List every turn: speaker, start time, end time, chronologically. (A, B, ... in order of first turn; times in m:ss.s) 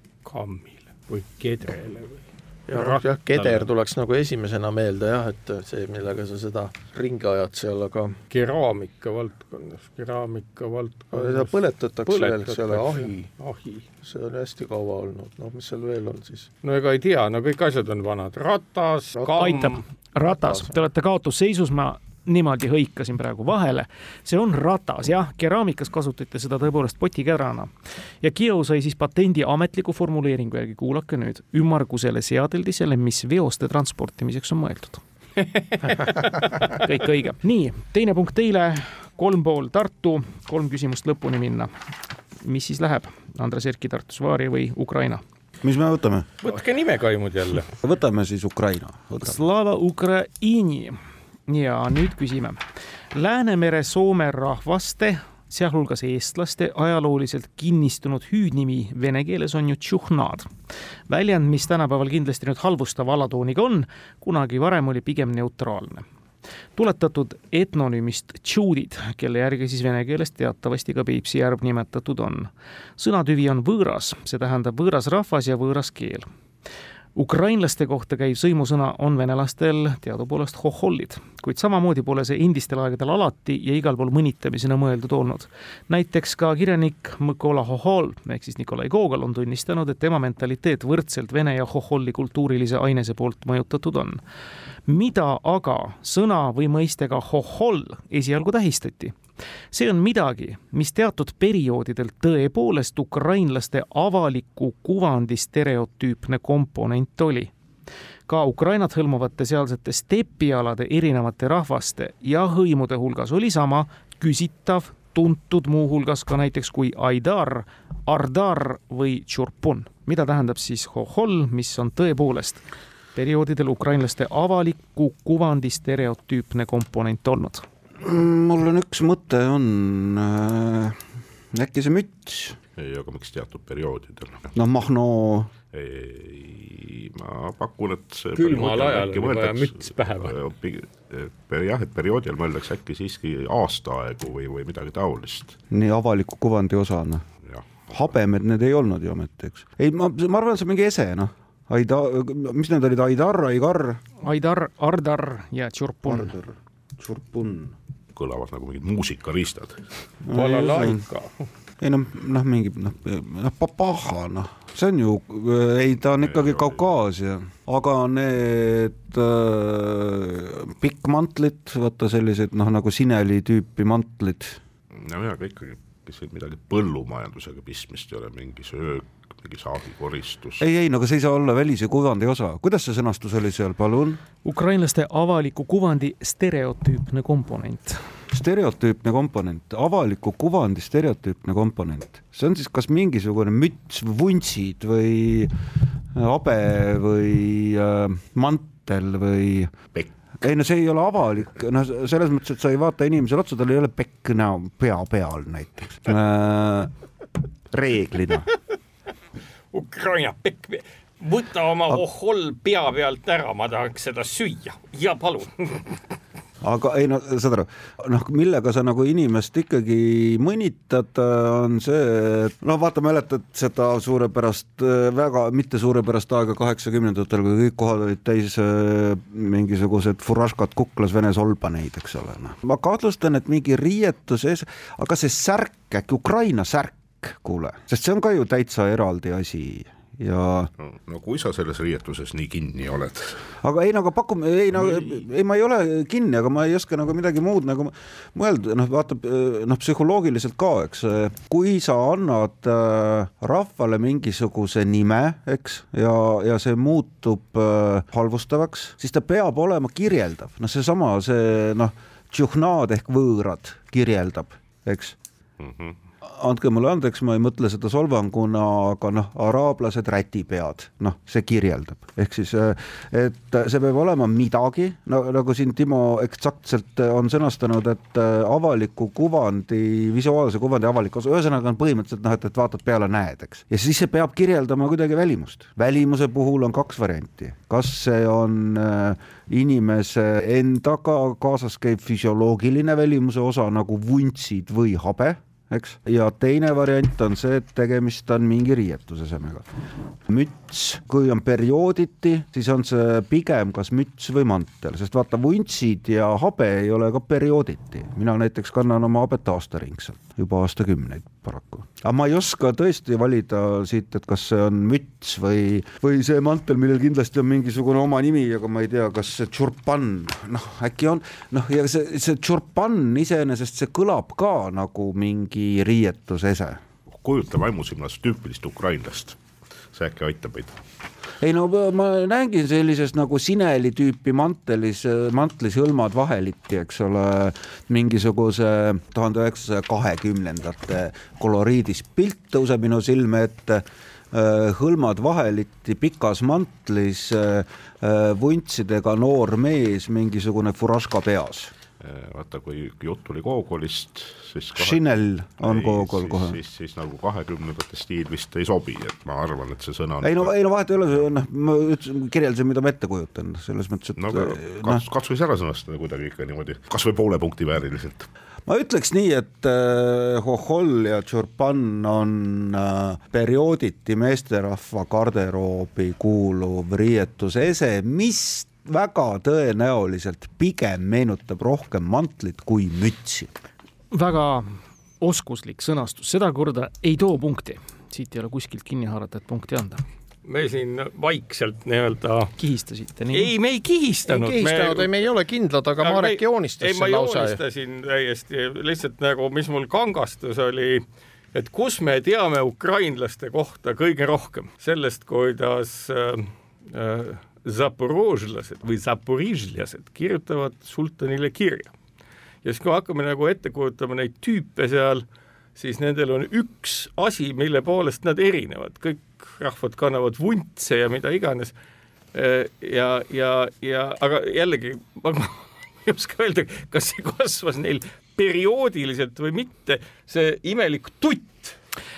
0:00.2-0:03.7 A
0:02.7-0:08.2 B
0:08.3-0:13.9 A
0:11.1-0:13.3 B
0:14.0-0:16.5 B
0:16.6-0:19.8 A
0:19.2-0:19.5 B
0:19.3-0:27.7 C
0:20.3-0:20.7 B
0:28.2-0:35.0 C
0:35.6-0:36.3 A
0:36.0-0:41.7 C
0:42.4-0:45.2 C
0:45.6-0:46.3 D
0:46.4-0:47.7 A
0:47.8-0:49.4 D
0:49.2-0:51.0 C
0:51.5-0:52.6 C
0:53.1-1:00.5 C
1:01.1-1:06.0 C
1:06.8-1:16.3 C
1:17.2-1:34.2 C
1:34.9-1:39.2 C
1:39.7-1:47.5 C
1:48.3-2:02.6 C
2:03.2-2:07.6 C
2:08.0-2:12.6 D
2:12.8-2:14.5 E
2:14.5-2:15.5 D
2:15.7-2:25.6 E
2:18.4-2:20.4 A
2:25.7-2:27.2 D
2:27.9-2:34.0 D
2:34.2-2:36.3 C
2:36.0-2:37.8 D
2:38.2-2:39.8 E
2:40.3-2:41.0 D
2:40.3-2:41.3 A
2:41.8-2:54.6 D
2:46.3-2:46.7 E
2:54.9-3:00.6 E
3:00.6-3:04.2 D
3:04.4-3:08.0 C
3:08.3-3:15.5 D
3:16.1-3:19.8 D
3:20.4-3:26.9 D
3:27.7-3:28.5 D
3:29.7-3:35.9 A
3:36.6-4:00.7 D
4:00.8-4:03.4 E
4:03.6-4:25.2 D
4:25.6-4:26.0 E
4:26.2-4:59.7 D
5:00.2-5:26.8 D
5:27.1-5:29.4 E
5:29.9-5:30.8 E
5:31.4-5:51.7 D
5:52.0-5:55.0 E
5:54.8-5:56.6 D
5:55.6-6:00.5 E
6:00.2-6:05.0 D
6:04.2-6:08.3 E
6:08.7-6:23.5 D
6:24.1-6:30.0 C
6:30.4-6:32.5 A
6:32.6-6:33.5 C
6:33.3-6:35.3 A
6:34.3-6:37.6 B
6:36.0-6:51.9 A
6:52.6-7:01.7 A
7:02.3-7:11.8 A